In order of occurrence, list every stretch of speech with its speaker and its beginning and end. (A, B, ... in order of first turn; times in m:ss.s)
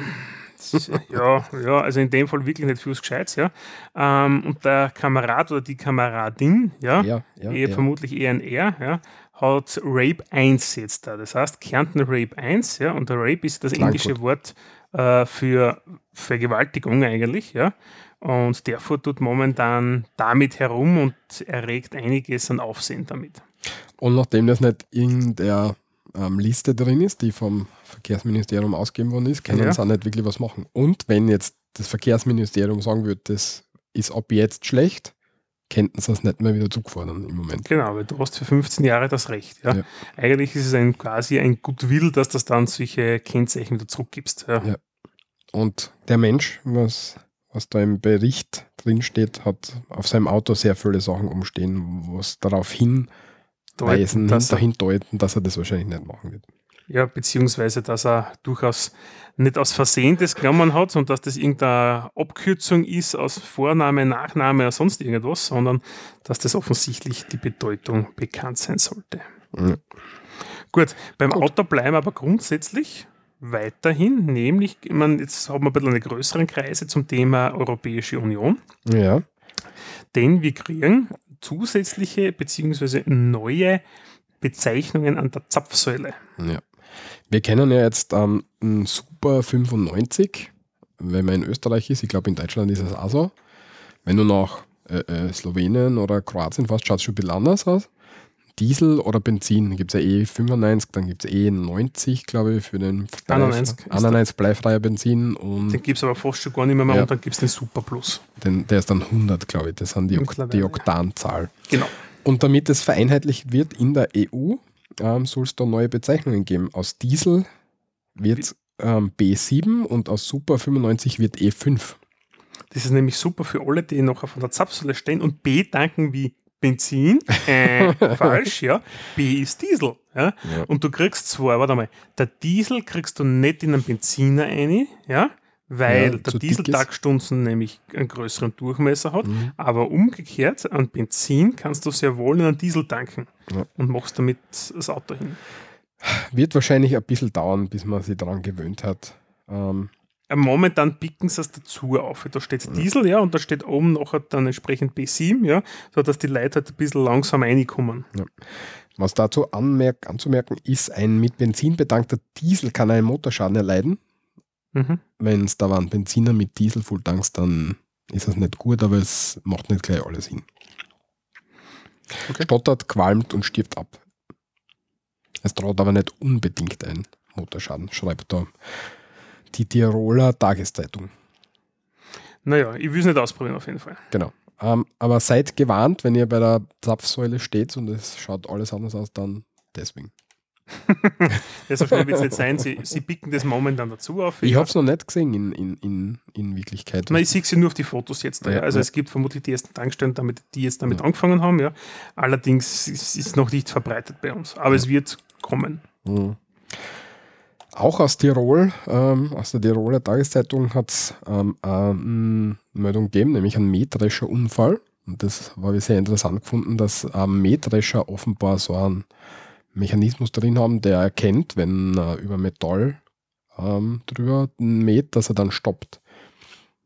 0:00.6-0:23.4 A
0:00.7-0:01.2 B
0:07.0-0:07.9 B
0:13.8-0:14.2 B
0:24.0-0:35.1 B
0:29.5-0:29.8 A
0:35.7-0:37.7 B
0:37.6-0:44.7 A
0:45.5-0:53.1 B
0:53.8-0:54.6 A
0:53.8-0:56.5 B
0:56.9-1:09.2 A
1:09.6-1:09.8 B
1:10.7-1:18.6 A
1:18.8-1:19.2 B
1:20.1-1:23.8 A
1:24.4-1:26.2 A
1:26.4-1:26.6 B
1:27.3-1:33.3 B
1:34.0-1:37.9 B
1:38.6-1:45.8 B
1:43.3-1:44.2 A
1:45.7-1:48.2 A
1:48.4-1:51.7 B
1:50.1-1:50.8 A
1:52.2-1:57.5 B
1:58.2-2:02.0 B
2:02.7-2:25.4 A
2:07.9-2:08.4 B
2:15.9-2:16.9 B
2:19.2-2:19.5 B
2:26.0-2:29.9 B
2:30.3-2:38.1 A
2:38.1-2:44.0 B
2:44.8-2:45.0 A
2:45.2-2:50.5 B
2:52.3-2:54.0 B
2:55.4-2:58.9 B
2:59.5-3:01.1 B
3:02.4-3:04.0 A
3:04.1-3:10.1 B
3:10.9-3:14.7 A
3:11.9-3:12.2 B
3:14.4-3:17.3 B
3:17.1-3:25.8 A
3:18.4-3:18.9 B
3:26.0-3:26.9 B
3:27.7-3:39.1 B
3:39.7-3:43.0 B
3:43.6-3:46.0 B